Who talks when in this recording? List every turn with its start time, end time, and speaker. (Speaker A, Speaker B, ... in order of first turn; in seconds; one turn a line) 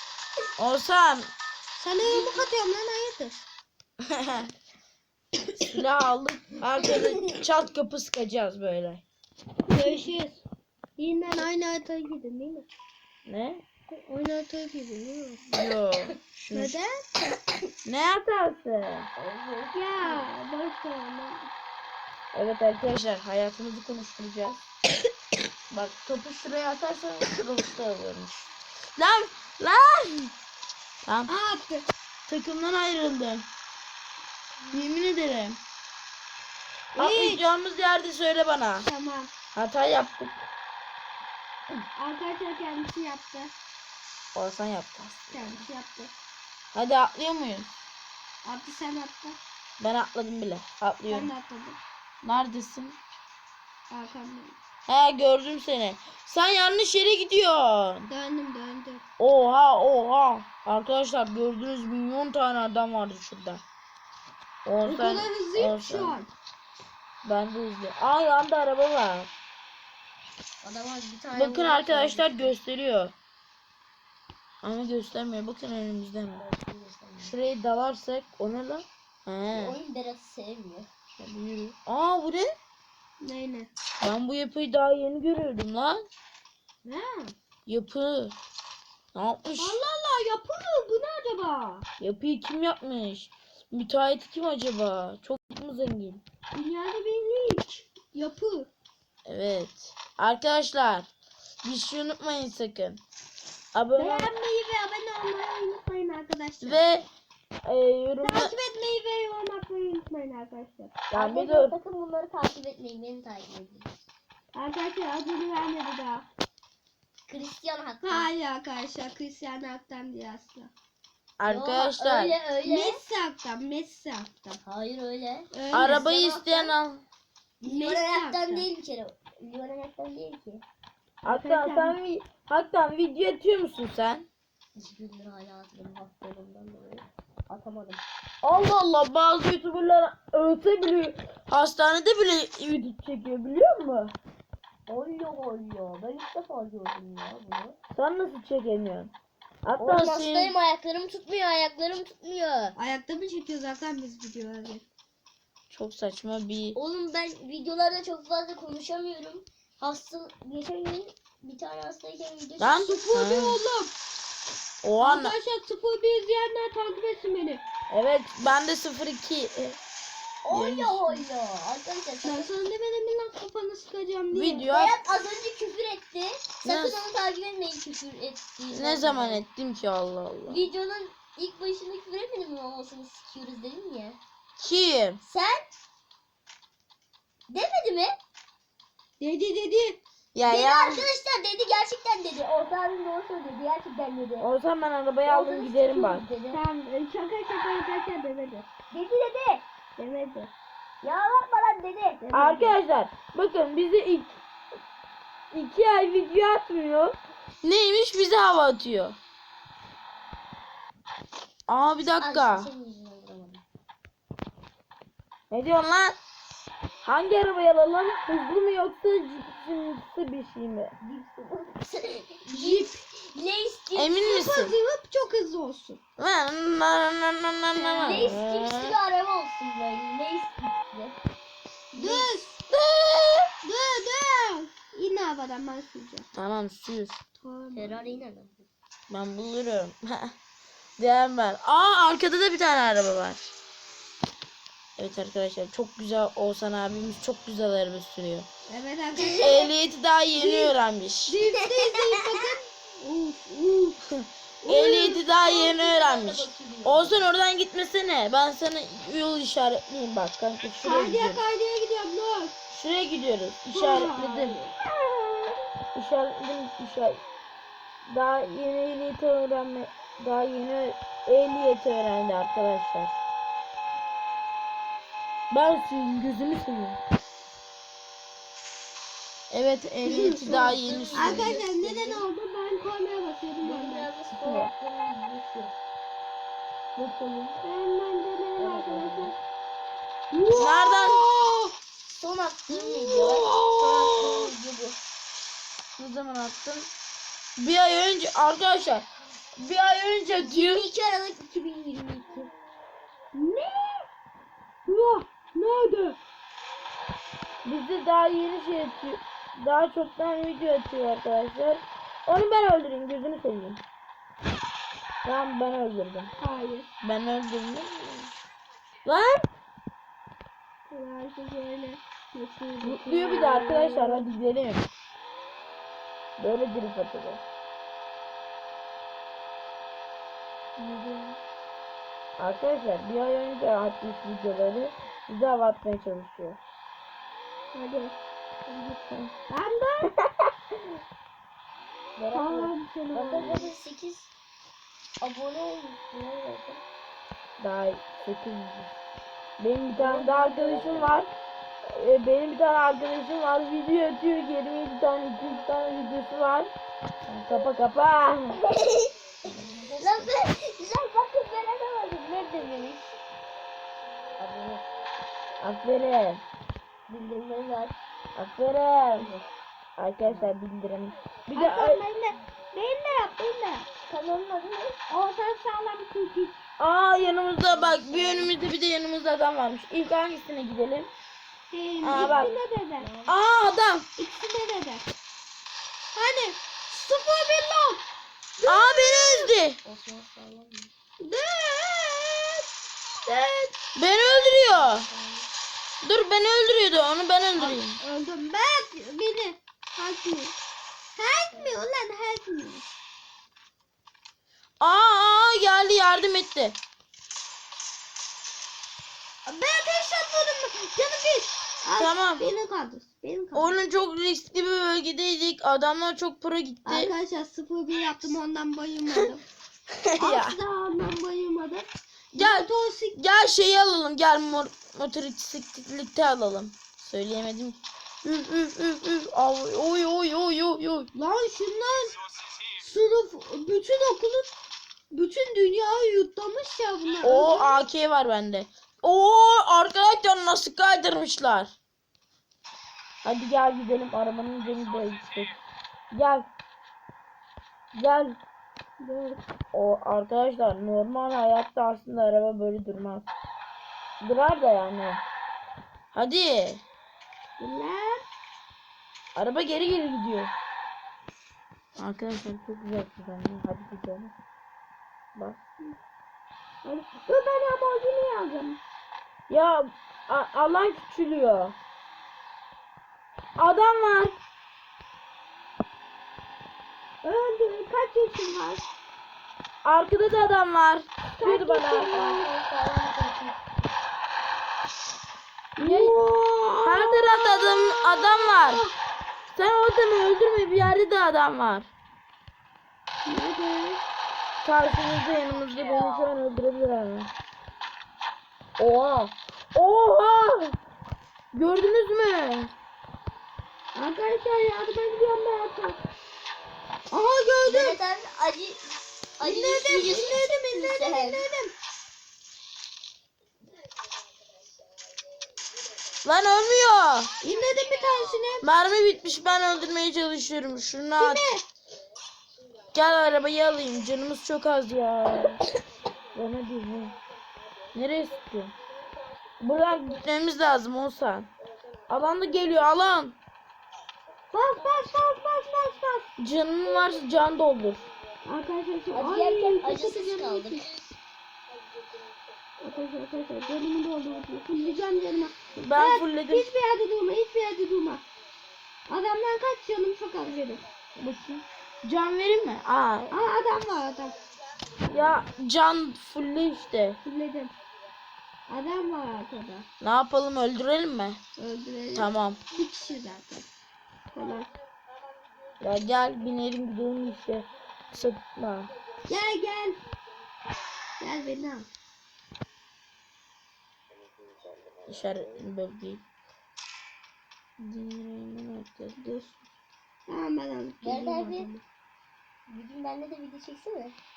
Speaker A: 0.6-1.3
Speaker B: 1.8-3.4
Speaker C: 2.0-2.5
Speaker A: 4.0-4.5
Speaker A: 5.5-9.0
Speaker B: 9.7-10.4
Speaker B: 11.0-12.7
Speaker A: 13.2-13.6
Speaker B: 13.9-15.7
Speaker A: 15.5-16.8
Speaker B: 16.5-17.2
Speaker A: 17.8-19.1
Speaker C: 19.1-20.3
Speaker B: 19.7-21.5
Speaker A: 22.3-24.7
Speaker A: 25.7-28.4
Speaker A: 29.0-30.3
Speaker A: 31.0-31.3
Speaker B: 31.3-31.9
Speaker A: 32.3-33.5
Speaker A: 34.7-35.6
Speaker B: 36.9-37.5
Speaker A: 37.0-38.9
Speaker B: 38.8-39.3
Speaker A: 39.5-40.4
Speaker B: 41.9-43.5
Speaker A: 44.3-45.6
Speaker B: 45.3-46.1
Speaker A: 46.7-47.8
Speaker B: 48.4-49.4
Speaker A: 49.8-51.3
Speaker B: 51.1-51.8
Speaker A: 52.2-53.0
Speaker B: 53.9-54.6
Speaker A: 54.9-58.1
Speaker B: 58.1-59.0
Speaker A: 59.2-63.6
Speaker A: 64.6-66.2
Speaker B: 64.8-66.3
Speaker A: 67.2-69.3
Speaker C: 70.6-72.5
Speaker A: 71.3-73.1
Speaker A: 74.6-76.4
Speaker C: 76.3-77.4
Speaker A: 77.2-79.8
Speaker C: 79.5-80.9
Speaker A: 81.2-82.5
Speaker B: 83.2-83.7
Speaker A: 84.0-86.0
Speaker B: 86.8-87.3
Speaker A: 87.7-88.3
Speaker A: 89.1-89.8
Speaker B: 89.6-91.8
Speaker A: 92.0-96.2
Speaker B: 96.5-98.7
Speaker A: 99.2-101.1
Speaker A: 101.6-103.0
Speaker A: 103.7-104.3
Speaker B: 103.9-106.8
Speaker A: 106.6-107.1
Speaker A: 107.6-108.5
Speaker B: 108.2-111.0
Speaker A: 111.1-111.7
Speaker C: 111.1-113.9
Speaker B: 114.5-116.3
Speaker C: 117.3-118.3
Speaker B: 118.0-120.7
Speaker A: 121.4-122.3
Speaker C: 121.4-123.0
Speaker B: 122.6-124.6
Speaker C: 124.6-126.7
Speaker B: 125.5-126.1
Speaker A: 125.7-127.0
Speaker C: 127.6-130.6
Speaker B: 127.6-128.7
Speaker A: 131.2-134.3
Speaker B: 131.2-132.0
Speaker C: 134.7-138.0
Speaker A: 138.4-144.1
Speaker C: 144.9-147.8
Speaker A: 147.9-149.1
Speaker A: 149.6-150.5
Speaker C: 149.8-152.8
Speaker B: 152.8-154.8
Speaker A: 155.7-156.8
Speaker C: 156.7-163.0
Speaker A: 162.6-163.6
Speaker B: 162.8-163.9
Speaker A: 164.8-165.3
Speaker B: 165.0-167.6
Speaker A: 167.9-169.8
Speaker C: 170.4-172.6
Speaker A: 170.5-171.2
Speaker B: 172.2-174.7
Speaker A: 174.3-175.0
Speaker C: 174.7-179.4
Speaker A: 176.6-177.0
Speaker A: 178.7-180.7
Speaker C: 180.5-184.2
Speaker A: 184.6-185.2
Speaker C: 185.2-185.7
Speaker C: 187.5-188.2
Speaker B: 189.2-190.0
Speaker A: 190.3-191.1
Speaker C: 190.4-194.5
Speaker A: 194.4-196.3
Speaker C: 195.2-196.6
Speaker B: 196.5-198.7
Speaker C: 198.9-199.6
Speaker B: 200.0-200.5
Speaker C: 201.0-202.2
Speaker B: 202.2-202.8
Speaker A: 202.3-204.4
Speaker A: 205.5-209.2
Speaker A: 211.7-212.7
Speaker C: 212.2-213.6
Speaker A: 215.5-216.2
Speaker A: 217.0-220.9
Speaker C: 221.0-224.2
Speaker B: 222.5-222.9
Speaker A: 223.9-224.7
Speaker B: 224.2-226.0
Speaker A: 226.2-228.9
Speaker B: 227.8-228.4
Speaker C: 228.0-231.2
Speaker C: 231.9-232.3
Speaker B: 231.9-232.6
Speaker A: 232.7-233.4
Speaker B: 233.6-236.3
Speaker A: 236.3-237.2
Speaker B: 237.4-238.2
Speaker C: 237.7-238.7
Speaker A: 239.1-240.3
Speaker A: 241.0-243.5
Speaker A: 245.0-248.5
Speaker B: 248.7-249.7
Speaker C: 249.2-249.5
Speaker A: 249.4-251.4
Speaker B: 250.3-250.7
Speaker B: 251.3-254.0
Speaker C: 251.4-252.5
Speaker A: 254.1-261.4
Speaker B: 254.6-255.2
Speaker C: 255.4-257.2
Speaker B: 260.8-262.5
Speaker A: 262.7-264.6
Speaker B: 263.7-265.5
Speaker A: 265.9-267.2
Speaker A: 268.1-273.2
Speaker A: 275.5-277.0
Speaker A: 279.5-281.6
Speaker B: 280.0-284.1
Speaker C: 280.4-282.2
Speaker C: 283.6-285.7
Speaker A: 284.3-284.7
Speaker A: 286.9-287.6
Speaker B: 287.6-289.4
Speaker C: 288.6-289.3
Speaker B: 290.3-291.7
Speaker A: 290.5-291.2
Speaker C: 292.1-295.0
Speaker B: 292.7-294.5
Speaker A: 296.0-296.9
Speaker A: 297.6-299.1
Speaker A: 299.6-300.9
Speaker C: 300.4-302.5
Speaker B: 303.3-304.1
Speaker B: 304.9-306.2
Speaker A: 307.6-313.8
Speaker A: 315.2-316.3
Speaker B: 316.4-316.9
Speaker A: 317.0-318.4
Speaker A: 319.0-319.4
Speaker B: 320.9-324.2
Speaker A: 322.8-324.9
Speaker A: 326.4-327.4
Speaker B: 330.8-331.2
Speaker A: 332.4-336.6
Speaker B: 337.7-338.2
Speaker B: 338.7-340.1
Speaker A: 339.1-339.3
Speaker C: 342.1-344.3
Speaker B: 342.3-343.7
Speaker C: 345.2-346.8
Speaker A: 347.6-348.9
Speaker A: 349.6-351.3
Speaker C: 349.9-351.2
Speaker A: 351.8-356.7
Speaker A: 357.3-358.6
Speaker C: 358.7-359.1
Speaker A: 359.4-360.3
Speaker C: 359.9-363.2
Speaker C: 364.4-364.9
Speaker A: 365.6-366.4
Speaker C: 367.1-368.0
Speaker A: 368.4-369.3
Speaker C: 369.1-369.4
Speaker A: 370.0-372.0
Speaker C: 370.2-370.5
Speaker B: 371.5-373.9
Speaker C: 374.1-375.0
Speaker B: 375.1-376.6
Speaker A: 376.8-381.1
Speaker C: 377.6-378.5
Speaker B: 381.7-383.1
Speaker A: 382.0-382.5
Speaker C: 382.1-383.4
Speaker A: 383.3-384.1
Speaker B: 384.1-385.1
Speaker B: 386.1-388.0
Speaker B: 388.6-389.5
Speaker A: 388.6-389.8
Speaker C: 389.8-390.9
Speaker B: 391.2-392.7
Speaker B: 393.2-393.8
Speaker A: 393.9-395.1
Speaker C: 394.2-395.5
Speaker A: 396.0-398.0
Speaker B: 397.6-400.5
Speaker B: 401.1-402.8
Speaker A: 404.8-406.8
Speaker B: 409.4-413.8
Speaker A: 412.0-412.5
Speaker A: 413.5-417.1
Speaker B: 416.8-419.4
Speaker A: 420.0-420.6
Speaker B: 420.2-423.2
Speaker A: 422.4-431.1
Speaker B: 431.1-432.2
Speaker B: 432.8-434.5
Speaker B: 435.1-437.8
Speaker A: 437.2-441.7
Speaker A: 443.2-445.6
Speaker A: 446.1-446.5
Speaker A: 447.9-448.4
Speaker B: 449.0-449.4
Speaker A: 449.7-453.3
Speaker A: 454.2-455.2
Speaker A: 456.1-456.8
Speaker B: 457.6-458.2
Speaker A: 459.3-460.5
Speaker A: 462.0-464.3
Speaker B: 466.8-468.8
Speaker A: 469.5-471.8
Speaker A: 473.6-474.4
Speaker B: 477.2-478.8
Speaker A: 479.8-482.1
Speaker B: 481.4-482.5
Speaker C: 482.0-483.6
Speaker B: 485.8-488.9
Speaker A: 485.8-486.2
Speaker A: 486.8-488.8
Speaker A: 489.5-491.9
Speaker B: 493.2-494.0
Speaker A: 494.6-497.3
Speaker A: 498.8-500.8
Speaker A: 501.5-502.7
Speaker B: 503.9-506.0
Speaker B: 507.1-508.0
Speaker C: 507.6-511.4
Speaker B: 509.4-511.7
Speaker A: 516.2-517.3
Speaker B: 517.4-518.7
Speaker A: 518.6-521.4
Speaker B: 521.2-521.6
Speaker A: 522.9-525.6
Speaker A: 526.3-527.1
Speaker A: 527.9-528.7
Speaker A: 529.6-531.5
Speaker A: 532.1-533.4
Speaker B: 534.5-536.3
Speaker A: 536.4-538.0
Speaker B: 538.4-540.9
Speaker C: 539.1-540.9
Speaker B: 542.8-548.2
Speaker A: 545.8-546.7
Speaker B: 549.1-550.8
Speaker A: 551.2-553.4
Speaker B: 553.3-554.4
Speaker A: 555.1-557.2
Speaker B: 557.2-557.7
Speaker B: 558.7-559.9
Speaker A: 560.0-561.4
Speaker B: 561.6-563.7
Speaker A: 562.1-562.6
Speaker B: 564.3-564.7
Speaker A: 565.8-568.9
Speaker B: 569.3-570.0
Speaker B: 571.2-571.9
Speaker A: 575.1-576.2
Speaker A: 577.8-579.2
Speaker B: 579.1-579.6
Speaker B: 580.3-581.8
Speaker C: 581.0-581.7
Speaker C: 582.7-584.1